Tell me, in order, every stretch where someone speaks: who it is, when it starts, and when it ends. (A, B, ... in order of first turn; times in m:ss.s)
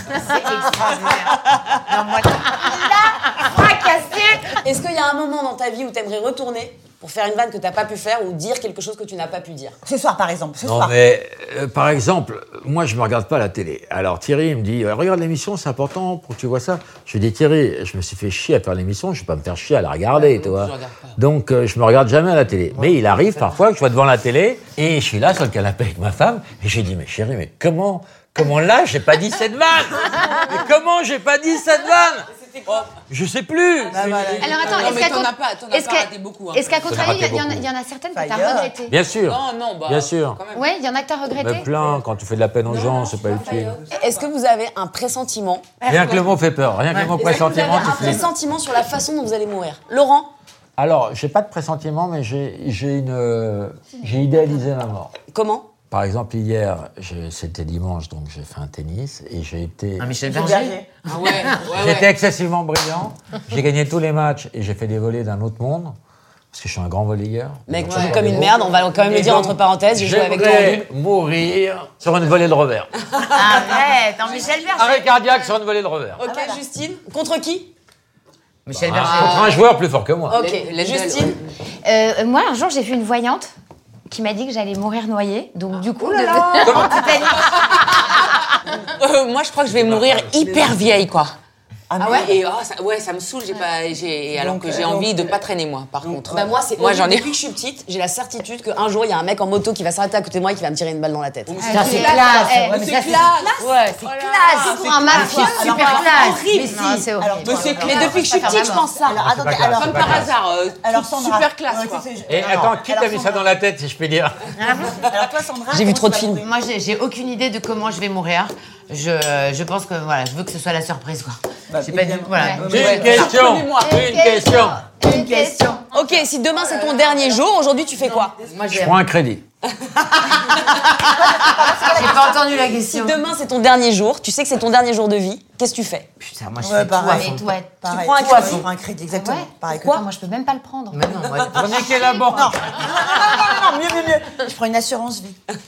0:00.1-0:03.5 A
0:02.7-0:04.4 B
0:04.6-0:09.8 C
0:09.8-0:11.0 D
0:10.6-0:32.3 E
0:20.2-0:21.0 F
0:22.7-0:23.6 A
0:32.6-0:32.9 F
0:33.1-0:35.2 E
0:33.9-0:34.7 D
0:34.4-0:39.0 B
0:34.5-0:37.0 F
0:36.8-0:37.7 E
0:38.1-0:38.7 D
0:38.9-0:40.4 E
0:39.3-0:40.7 F
0:40.5-0:41.7 B
0:41.4-0:43.8 E
0:42.7-0:44.1 F
0:42.7-0:45.8 C
0:45.8-0:48.3 E
0:47.2-0:50.3 C
0:50.8-0:55.1 E
0:55.3-0:55.7 C
0:55.9-1:00.2 E
1:00.0-1:01.6 A
1:00.2-1:00.9 D
1:01.1-1:02.1 F
1:01.7-1:06.0 E
1:06.5-1:12.9 E
1:07.7-1:10.9 C
1:07.9-1:08.2 A
1:13.3-1:15.0 A
1:14.2-1:14.7 D
1:14.7-1:16.2 E
1:16.2-1:17.7 C
1:16.2-1:16.6 D
1:18.7-1:19.6 A
1:18.7-1:20.4 E
1:20.3-1:21.4 C
1:20.3-1:21.5 F
1:21.8-1:23.5 B
1:24.1-1:27.2 B
1:26.6-1:28.4 F
1:26.6-1:27.9 A
1:26.6-1:27.0 E
1:28.9-1:31.4 F
1:29.7-1:30.7 E
1:31.9-1:32.4 D
1:32.0-1:37.4 F
1:34.4-1:35.4 D
1:36.0-1:36.6 D
1:36.3-1:41.7 C
1:41.5-1:43.6 F
1:41.6-1:42.9 B
1:41.7-1:49.0 A
1:41.8-1:43.4 D
1:44.2-1:44.9 F
1:44.5-1:50.3 D
1:44.6-1:48.8 B
1:45.1-1:45.4 C
1:47.5-1:48.9 F
1:47.6-1:48.8 C
1:49.1-1:50.3 E
1:49.8-1:52.1 F
1:50.8-1:53.5 D
1:52.3-1:54.6 E
1:52.4-1:52.8 A
1:54.6-1:55.0 A
1:54.7-1:56.5 D
1:55.7-1:56.4 C
1:56.4-2:03.3 A
2:01.7-2:03.3 D
2:02.4-2:02.6 B
2:02.7-2:04.9 E
2:02.7-2:03.9 F
2:03.7-2:05.8 B
2:05.0-2:05.8 D
2:05.9-2:08.3 C
2:06.0-2:07.4 F
2:08.0-2:08.4 F
2:08.5-2:09.0 A
2:08.7-2:09.4 E
2:10.0-2:13.2 A
2:11.0-2:12.4 D
2:12.7-2:16.1 C
2:16.2-2:18.6 A
2:16.6-2:20.0 D
2:17.8-2:18.6 C
2:19.1-2:21.2 B
2:20.9-2:22.1 A
2:21.5-2:22.8 E
2:22.1-2:22.4 B
2:22.3-2:25.4 D